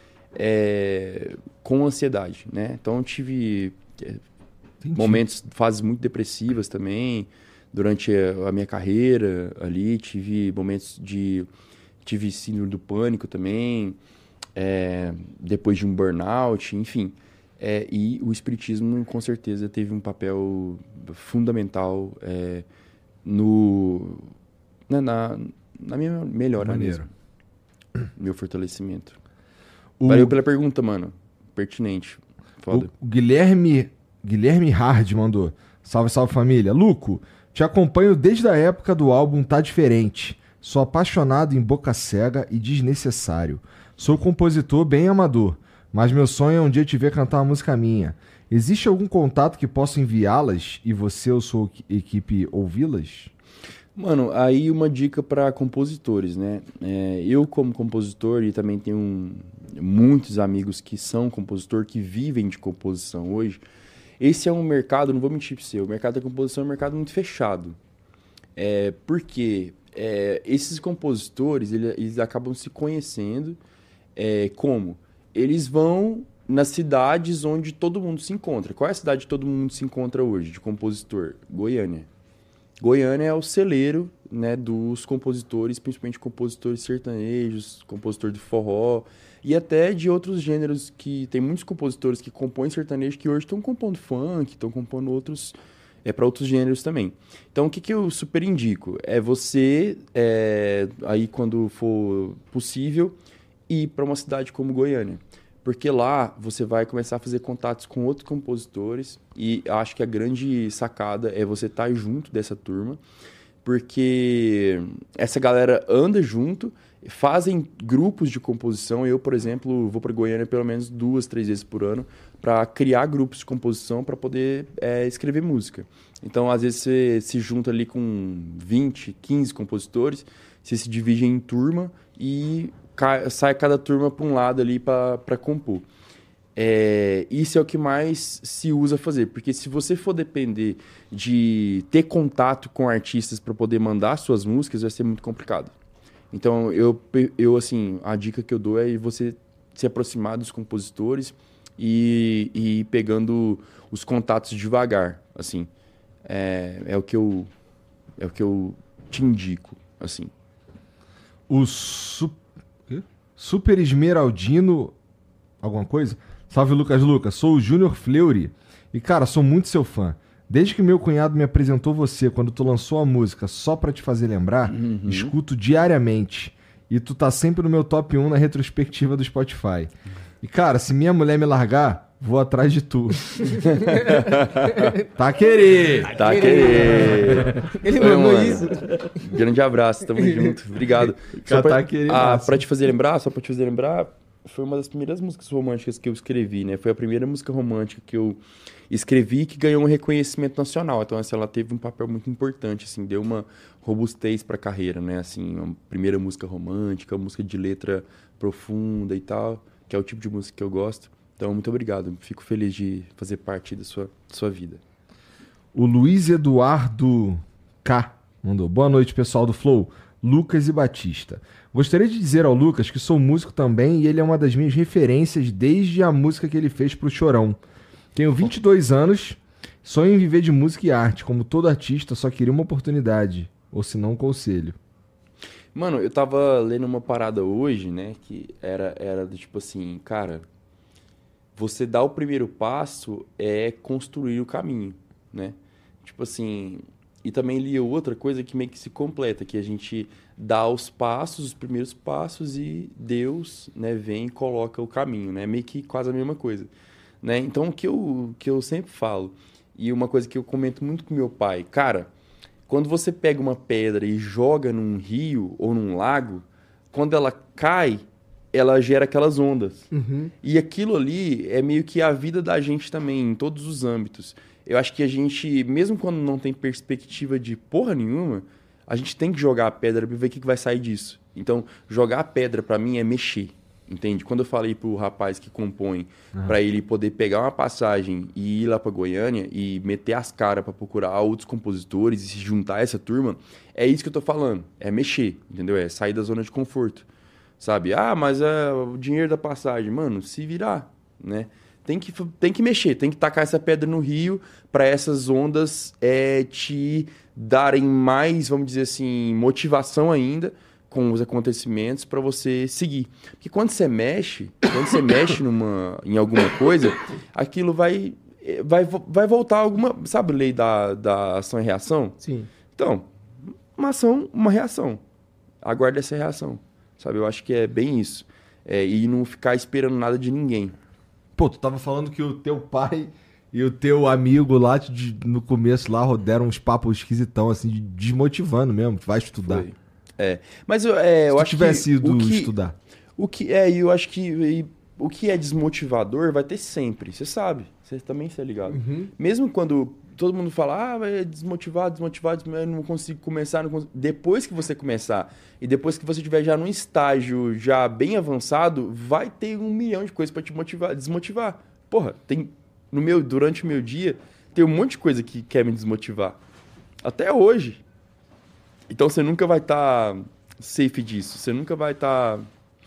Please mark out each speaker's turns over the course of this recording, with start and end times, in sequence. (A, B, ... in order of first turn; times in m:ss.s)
0:00.4-0:04.2 A
0:04.8-0:05.2 B
0:05.0-0:11.5 A
0:12.0-0:14.0 A
0:14.6-0:22.7 A
0:23.2-0:24.3 A
0:24.9-0:27.1 A
0:26.6-0:27.1 B
0:28.2-0:29.2 A
0:30.0-0:30.4 B
0:30.1-0:32.9 A
0:32.7-0:53.3 B
0:54.0-1:03.6 A
1:04.2-1:07.8 A
1:08.6-1:13.6 A
1:14.2-1:22.1 A
1:22.8-1:43.2 A
1:43.7-1:53.0 A
1:53.6-2:15.9 A
2:16.6-2:25.7 A
2:26.3-2:35.7 A
2:36.3-2:37.5 A
2:38.2-2:40.3 A
2:41.5-2:44.9 B
2:45.6-2:59.9 B
2:54.7-2:55.4 A
3:00.4-3:03.6 B
3:03.6-3:05.0 A
3:04.0-3:04.8 C
3:05.2-3:07.7 B
3:06.1-3:34.8 A
3:06.2-3:09.2 C
3:10.2-3:10.5 C
3:11.1-3:12.6 B
3:35.7-3:47.6 B
3:48.1-3:54.8 B
3:55.8-4:00.5 A
4:01.6-4:16.7 A
4:17.2-4:22.1 A
4:22.7-4:29.9 A
4:29.9-4:30.3 C
4:30.4-4:57.1 A
4:57.6-5:22.2 A
5:22.2-5:22.5 C
5:22.8-5:25.0 A
5:25.6-5:30.8 A
5:31.4-5:39.7 B
5:39.5-5:42.5 A
5:41.3-5:42.8 B
5:43.2-6:06.4 A
5:48.7-5:49.1 C
6:07.0-6:07.8 A
6:08.9-6:12.5 A